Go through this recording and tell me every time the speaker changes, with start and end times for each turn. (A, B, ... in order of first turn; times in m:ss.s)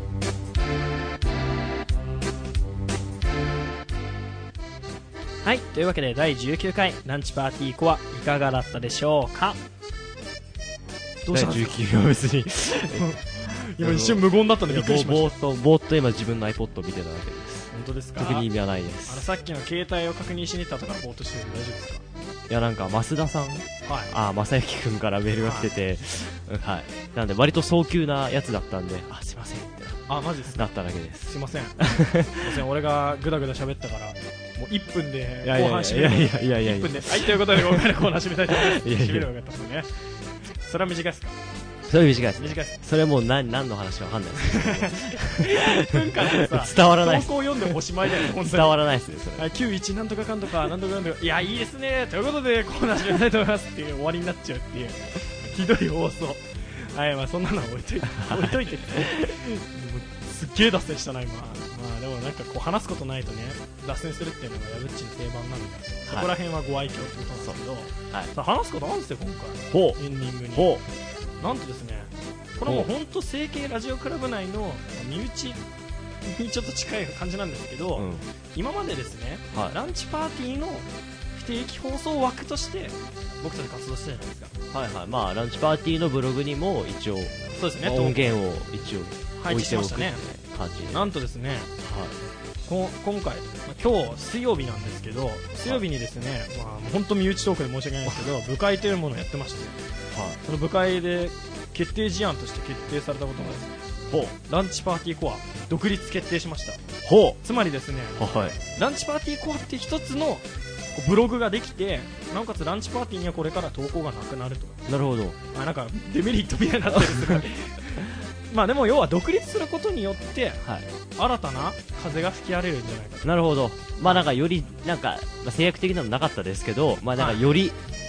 0:05.4-0:09.6 A
0:11.2-0:11.8 A
0:11.3-0:19.3 B
0:12.9-0:15.3 A
0:17.7-0:18.5 A
0:19.1-0:22.0 A
0:22.5-0:32.6 B
0:23.8-0:24.1 A
0:25.4-0:25.7 A
0:30.1-0:30.6 A
0:31.2-0:39.9 A
0:35.4-0:37.9 B
0:38.5-0:39.3 B
0:40.6-0:41.3 A
0:41.9-0:49.4 B
0:42.4-0:42.8 A
0:44.4-0:48.8 A
0:49.3-1:10.8 A
0:58.2-0:59.3 B
1:07.4-1:08.3 B
1:09.7-1:10.0 B
1:10.5-1:10.8 B
1:11.4-1:15.6 A
1:16.2-1:24.5 A
1:18.0-1:18.2 B
1:24.7-1:31.1 B
1:27.5-1:28.4 A
1:29.4-1:30.2 A
1:30.9-1:31.7 A
1:31.8-1:32.2 B
1:32.6-1:39.8 A
1:40.1-1:40.4 B
1:40.4-1:43.8 A
1:44.1-1:44.3 B
1:44.4-1:46.8 A
1:47.0-1:47.4 B
1:47.4-1:54.8 A
1:48.2-1:48.6 B
1:54.9-1:55.4 B
1:55.5-2:00.6 A
1:56.9-1:57.4 B
2:01.2-2:03.4 A
2:03.2-2:07.8 B
2:07.2-2:07.4 A